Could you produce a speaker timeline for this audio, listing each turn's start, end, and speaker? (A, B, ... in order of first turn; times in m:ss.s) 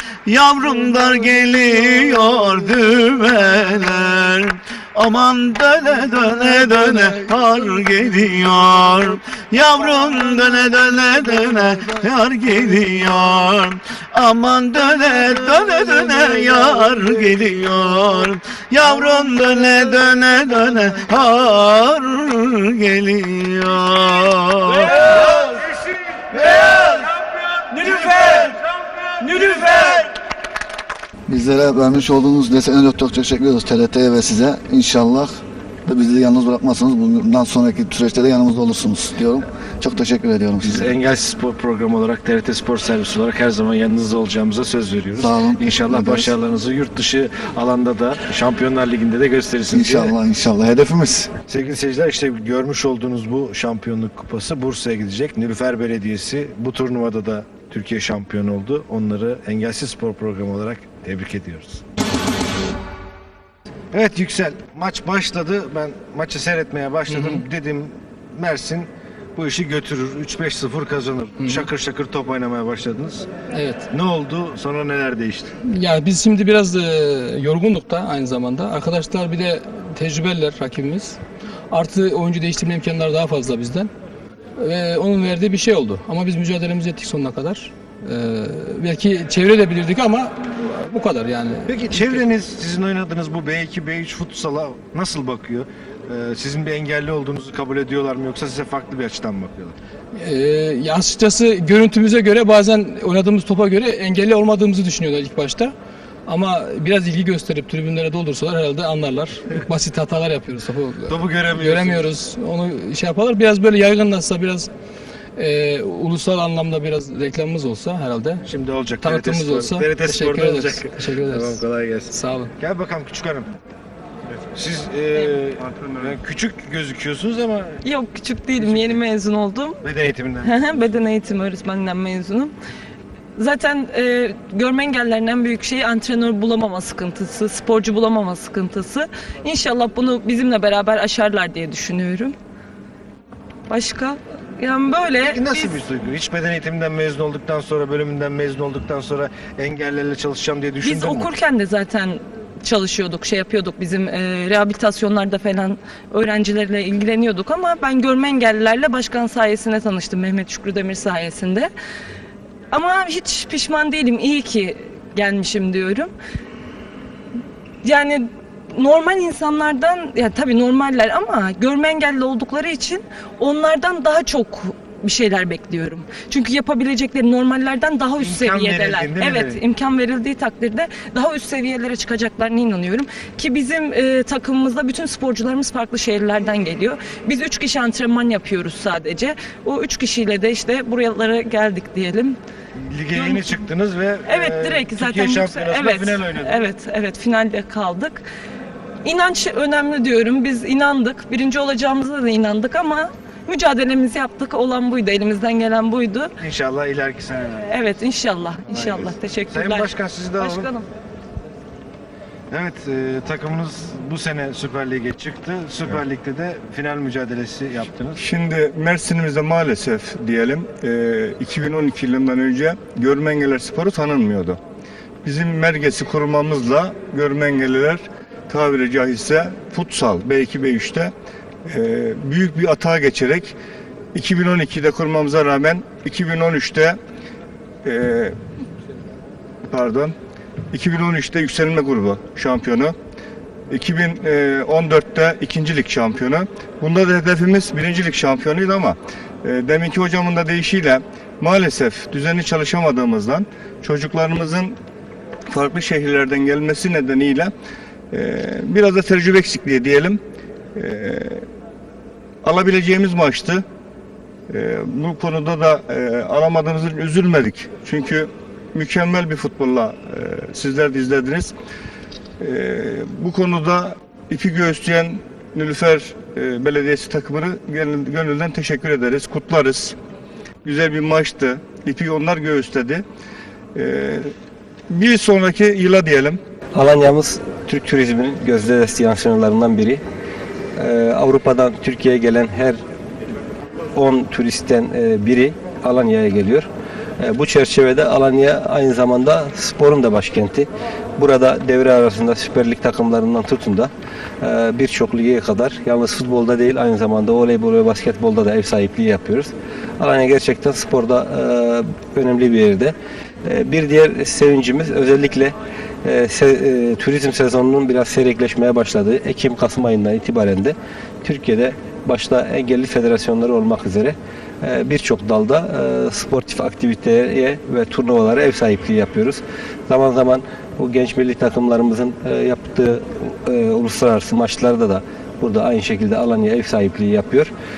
0:00.3-0:25.3 A
0:24.9-0:25.6 B
0:26.3-0:26.9 B
0:26.5-0:26.9 A
0:27.6-0:28.2 B
0:27.8-0:28.4 A
0:29.3-0:30.0 A
0:31.3-0:40.9 C
0:40.6-0:50.1 B
0:45.2-0:46.3 C
0:49.7-0:51.3 C
0:51.5-1:01.8 B
1:03.9-1:13.3 B
1:07.1-1:07.4 D
1:11.4-1:11.7 D
1:13.5-1:13.9 D
1:13.9-1:15.5 B
1:15.6-1:21.2 D
1:21.7-1:23.9 D
1:24.6-1:32.2 D
1:31.6-1:39.8 B
1:40.1-1:45.7 D
1:46.3-1:54.7 D
1:51.1-1:52.1 B
1:55.4-1:58.4 D
1:58.4-2:03.5 B
1:59.0-2:02.5 D
2:04.5-2:07.8 B
2:05.6-2:06.2 E
2:07.8-2:09.8 F
2:08.6-2:09.0 B
2:09.8-2:11.1 B
2:10.4-2:12.5 F
2:13.4-2:22.3 F
2:23.7-2:25.8 F
2:25.2-2:31.3 B
2:30.8-2:41.7 F
2:42.7-2:46.1 F
2:47.8-3:12.4 F
2:58.2-2:59.6 B
3:12.8-3:16.7 B
3:13.1-3:13.6 F
3:14.2-3:18.2 F
3:19.0-3:26.3 F
3:26.4-3:27.6 B
3:27.7-3:30.8 F
3:28.7-3:30.7 B
3:32.5-3:38.2 B
3:38.2-3:44.6 E
3:45.2-3:51.1 E
3:51.6-3:53.6 E
3:54.1-3:57.0 E
3:57.8-3:58.4 E
3:59.7-4:00.1 E
4:00.7-4:02.9 E
4:03.7-4:14.8 E
4:15.5-4:17.5 E
4:18.1-4:20.2 E
4:20.7-4:21.4 E
4:22.4-4:23.6 E
4:24.5-4:31.5 E
4:32.4-4:40.0 E
4:40.6-4:43.0 E
4:43.7-4:44.3 E
4:44.9-4:46.4 E
4:46.7-4:50.0 G
4:50.8-4:52.8 G
4:53.9-4:56.7 G
4:57.2-5:03.9 G
5:04.4-5:37.5 G